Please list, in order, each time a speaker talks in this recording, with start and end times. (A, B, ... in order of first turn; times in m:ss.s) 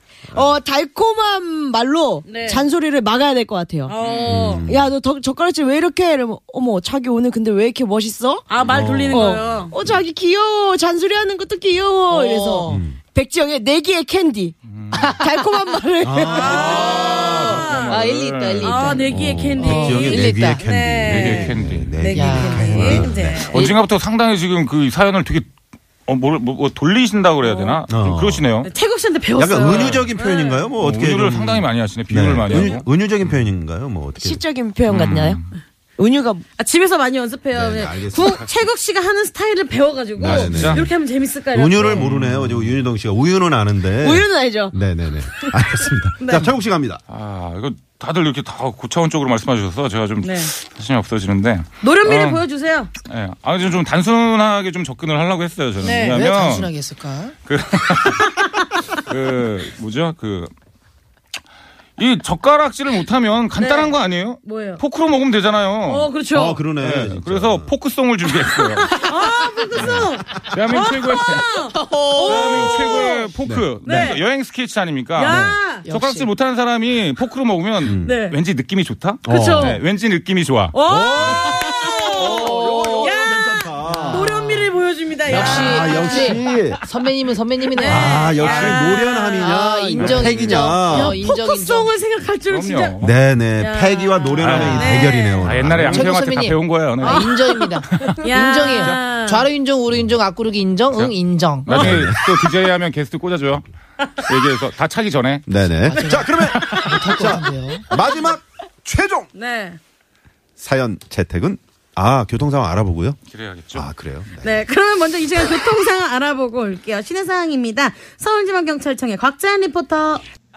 0:00.3-0:04.0 A
0:02.2-0:02.6 B
0:03.9-0:04.7 B
0:04.0-0:04.5 C
0:04.2-0:04.9 D
0:04.6-0:08.4 A
0:08.5-0:09.8 B
0:08.6-0:09.6 D
0:09.1-0:16.8 A
0:12.1-0:12.8 E
0:12.7-0:13.0 D
0:14.6-0:15.2 C
0:14.9-0:15.7 E
0:16.0-0:17.3 D
0:16.3-0:18.0 B
0:16.3-0:20.6 E
0:16.4-0:19.0 C
0:18.6-0:23.6 B
0:19.1-0:23.3 D
0:21.1-0:22.0 C
0:22.0-0:23.8 E
0:22.6-0:22.9 A
0:22.6-0:25.5 C
0:26.0-0:28.7 C
0:27.4-0:27.8 B
0:27.9-0:28.4 D
0:28.6-0:30.7 B
0:29.4-0:34.4 D
0:29.6-0:30.1 C
0:30.8-0:33.5 C
0:34.2-0:35.4 A
0:34.8-0:35.6 C
0:36.0-0:36.4 A
0:36.6-0:42.1 B
0:37.5-0:38.4 D
0:40.2-0:40.9 D
0:40.2-0:40.9 C
0:41.5-0:47.0 D
0:41.8-0:42.8 C
0:44.0-0:44.7 A
0:45.3-0:45.8 A
0:46.2-0:46.5 B
0:47.1-0:52.4 C
0:50.2-0:50.5 B
0:51.8-0:52.9 B
0:53.0-0:56.7 C
0:55.8-0:56.2 B
0:56.0-0:57.3 E
0:57.4-0:58.4 C
0:58.1-0:58.5 B
0:58.9-1:00.5 C
1:02.0-1:06.1 C
1:03.6-1:04.8 B
1:05.8-1:06.6 B
1:06.3-1:07.7 D
1:06.8-1:09.1 C
1:08.4-1:14.2 B
1:09.7-1:11.6 C
1:11.7-1:12.5 E
1:12.2-1:20.8 C
1:13.4-1:13.7 D
1:15.2-1:15.9 B
1:15.2-1:15.6 D
1:15.8-1:16.3 E
1:17.8-1:18.2 D
1:18.0-1:18.4 B
1:19.2-1:19.8 D
1:19.3-1:19.8 B
1:20.7-1:26.4 B
1:20.8-1:24.6 D
1:22.2-1:23.1 E
1:23.8-1:24.5 E
1:25.2-1:28.4 E
1:25.2-1:26.8 D
1:27.7-1:33.0 B
1:27.8-1:31.2 D
1:28.4-1:28.8 C
1:29.4-1:31.9 E
1:29.9-1:30.4 C
1:32.5-1:33.1 C
1:33.0-1:36.1 D
1:33.6-1:35.5 B
1:34.4-1:39.0 C
1:35.8-1:42.0 E
1:37.0-1:37.4 B
1:38.2-1:39.5 B
1:40.9-1:43.6 C
1:41.7-1:42.2 D
1:44.2-1:45.4 C
1:45.4-1:49.3 D
1:45.8-1:47.9 E
1:46.5-1:47.0 C
1:49.3-1:49.8 B
1:50.6-1:53.2 D
1:53.3-1:53.9 C
1:53.7-1:54.6 D
1:54.4-2:00.2 B